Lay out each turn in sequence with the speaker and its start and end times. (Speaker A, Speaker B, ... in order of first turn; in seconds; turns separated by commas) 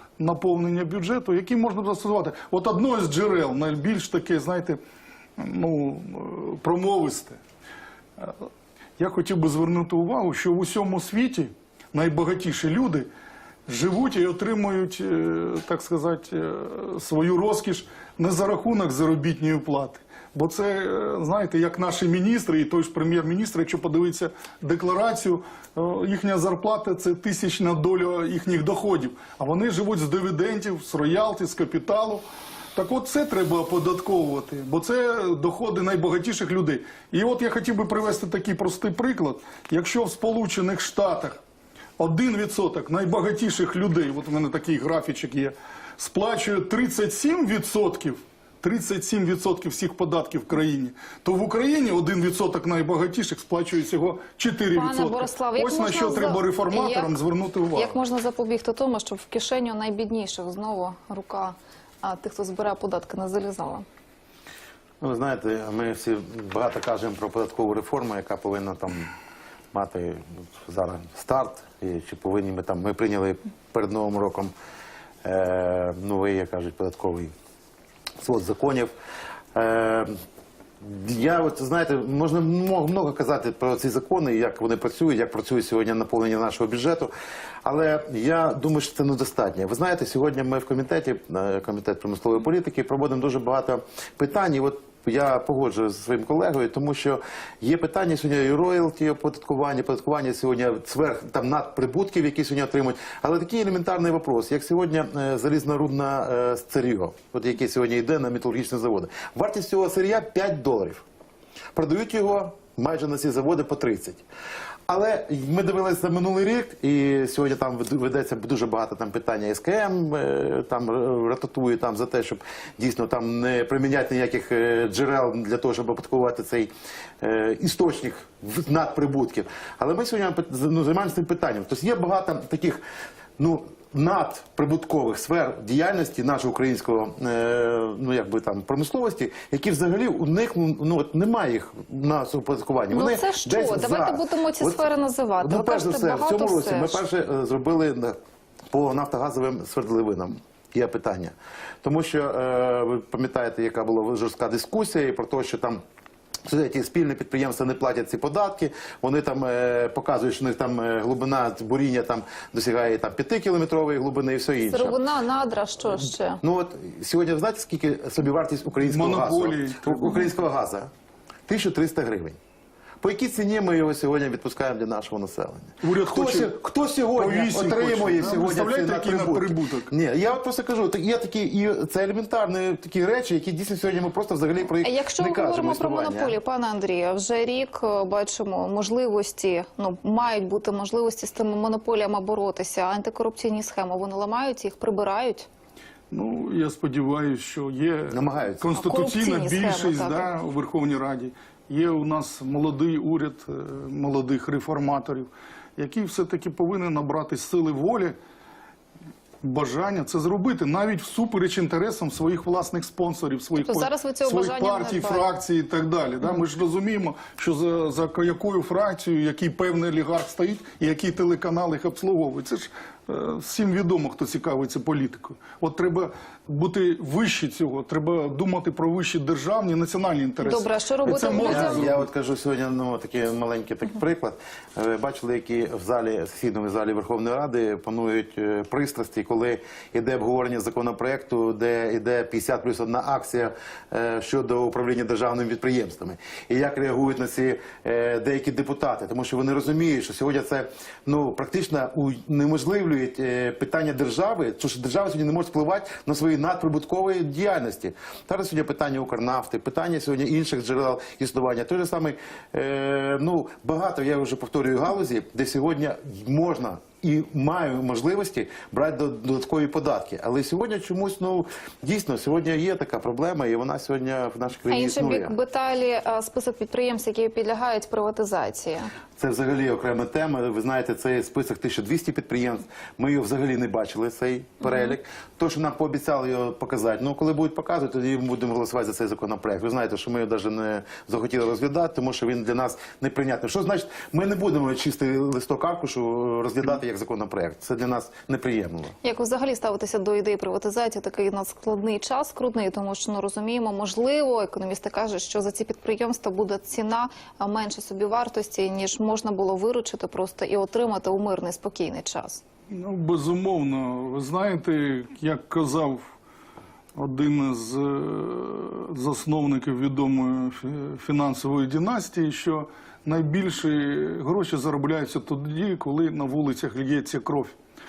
Speaker A: 0.2-4.8, Speaker A: 5.4-7.4, Speaker A: 8.2-8.4, Speaker A: 9.0-13.1, Speaker A: 13.7-41.4, Speaker A: 42.0-58.0, Speaker B: 54.7-57.2, Speaker B: 57.7-63.8, Speaker C: 65.0-69.1, Speaker C: 69.7-74.5, Speaker C: 75.2-77.3, Speaker C: 78.2-78.9, Speaker C: 79.5-80.2, Speaker C: 80.8-87.1, Speaker C: 87.6-111.0, Speaker C: 111.7-114.2, Speaker C: 114.9-132.8, Speaker C: 133.4-144.8, Speaker B: 142.9-147.0, Speaker C: 145.4-148.2, Speaker C: 148.7-155.8, Speaker C: 156.4-165.0, Speaker B: 164.7-166.4, Speaker C: 166.4-170.9, Speaker A: 168.8-170.3, Speaker C: 171.5-172.4, Speaker C: 173.0-186.4, Speaker A: 175.8-176.5, Speaker A: 177.2-179.9, Speaker B: 184.8-195.5, Speaker A: 196.1-208.2, Speaker C: 198.1-198.7, Speaker B: 198.7-200.3, Speaker A: 209.4-232.0, Speaker B: 213.6-215.3, Speaker B: 230.4-231.9, Speaker C: 231.1-275.3, Speaker B: 274.7-278.9, Speaker C: 279.2-298.9, Speaker B: 299.0-312.4, Speaker A: 312.7-316.1, Speaker A: 316.9-327.6